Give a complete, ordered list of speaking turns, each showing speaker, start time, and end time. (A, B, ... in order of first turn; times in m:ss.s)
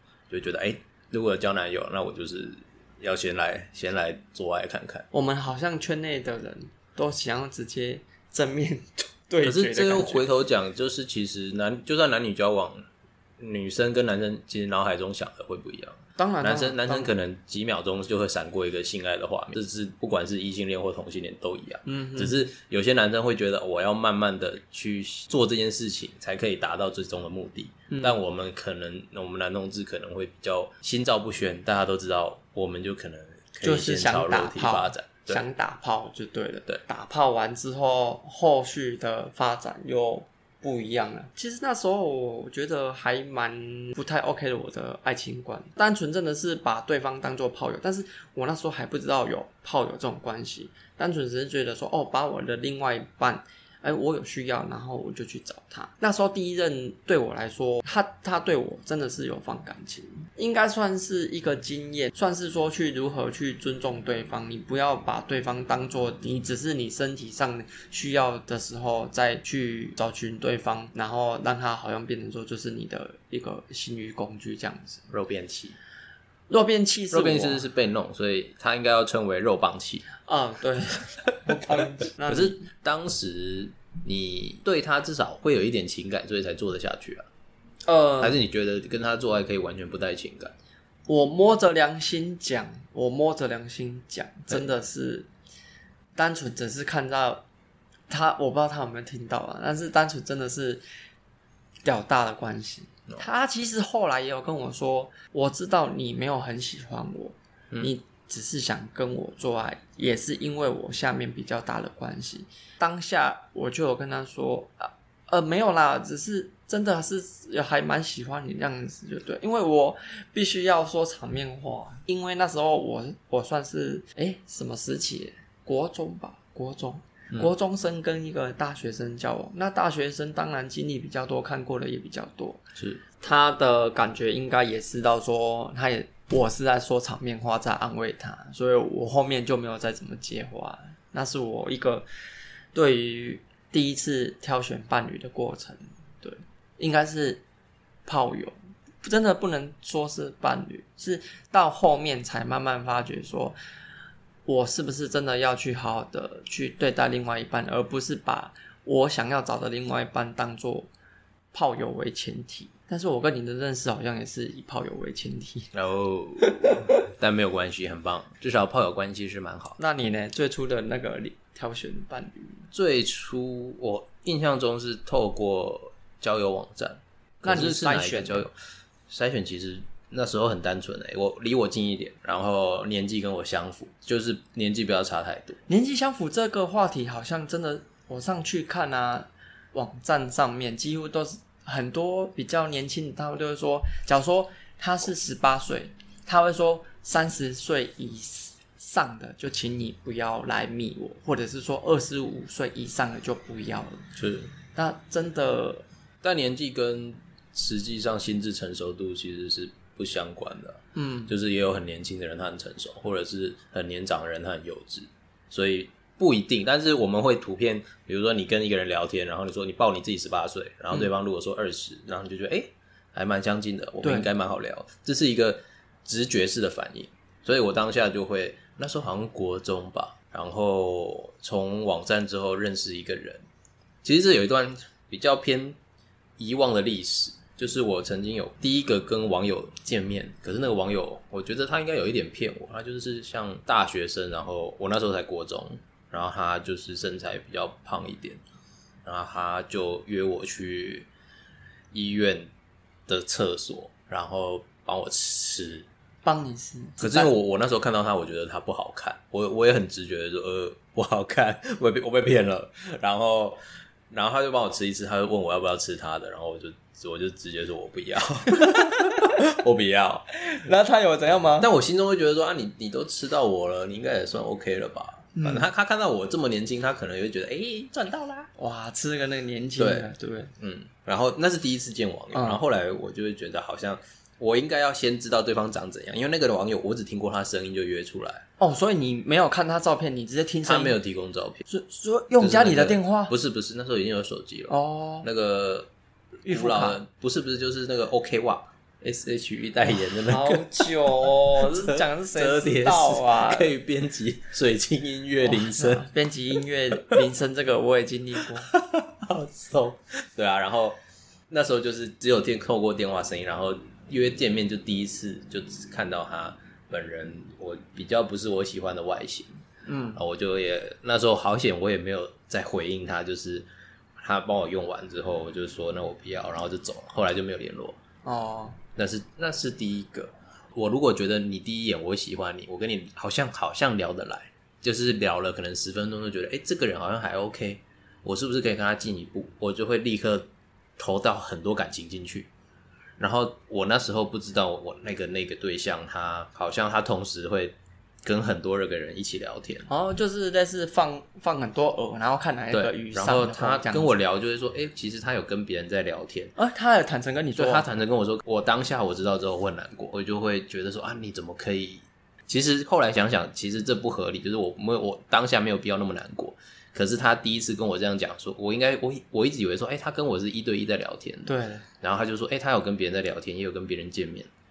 0:00.3-0:05.1 A
0:05.1-0:10.2 B
0:09.4-0:12.9 A
0:13.4-0:35.4 A
0:16.2-0:17.1 B
0:21.9-0:22.4 B
0:27.9-0:28.2 B
0:33.6-1:15.0 B
1:15.1-1:15.8 A
1:16.5-1:17.6 B
1:17.1-1:20.1 A
1:20.2-1:22.6 B
1:21.5-1:27.3 A
1:27.8-1:28.4 B
1:28.2-1:30.6 A
1:31.1-1:35.3 B
1:36.2-1:37.4 B
1:38.1-1:40.8 B
1:41.8-2:12.6 B
2:12.8-2:13.0 A
2:13.2-2:22.1 B
2:22.7-2:27.4 B
2:28.1-2:33.6 B
2:34.5-2:40.9 B
2:41.5-2:45.7 B
2:45.7-2:49.8 A
2:46.4-2:46.9 B
2:49.8-2:52.6 B
2:52.7-2:58.5 A
2:57.4-2:58.5 B
2:59.1-3:05.6 A
3:05.7-3:24.0 B
3:24.2-3:24.5 A
3:24.7-3:25.8 B
3:26.2-3:53.4 A
3:31.0-3:31.3 B
3:44.0-3:44.3 B
3:54.0-3:55.8 A
3:56.4-4:08.4 A
4:09.0-4:11.1 A
4:11.9-4:12.5 A
4:13.1-4:15.9 A
4:16.2-4:17.3 B
4:17.0-4:30.2 A
4:28.5-4:29.4 B
4:30.3-4:31.7 B
4:31.6-4:38.5 A
4:35.4-4:35.7 B
4:38.6-4:40.5 B
4:39.8-4:40.1 A
4:40.6-4:48.4 A
4:42.3-4:42.6 B
4:48.6-4:51.0 B
4:50.6-4:51.7 A
4:51.7-4:53.3 B
4:52.4-4:55.9 A
4:54.7-4:55.3 B
4:56.5-4:57.0 B
4:56.5-5:06.1 A
4:59.9-5:03.7 B
5:05.4-5:08.7 B
5:08.4-5:11.0 A
5:11.5-5:19.6 A
5:19.9-5:20.2 B
5:20.2-5:23.7 A
5:24.2-5:28.0 A
5:28.2-5:28.8 B
5:29.0-5:42.5 A
5:43.2-5:49.9 A
5:49.9-5:54.1 B
5:52.7-5:56.5 A
5:56.6-5:57.9 B
5:57.6-6:14.5 A
6:11.5-6:11.8 B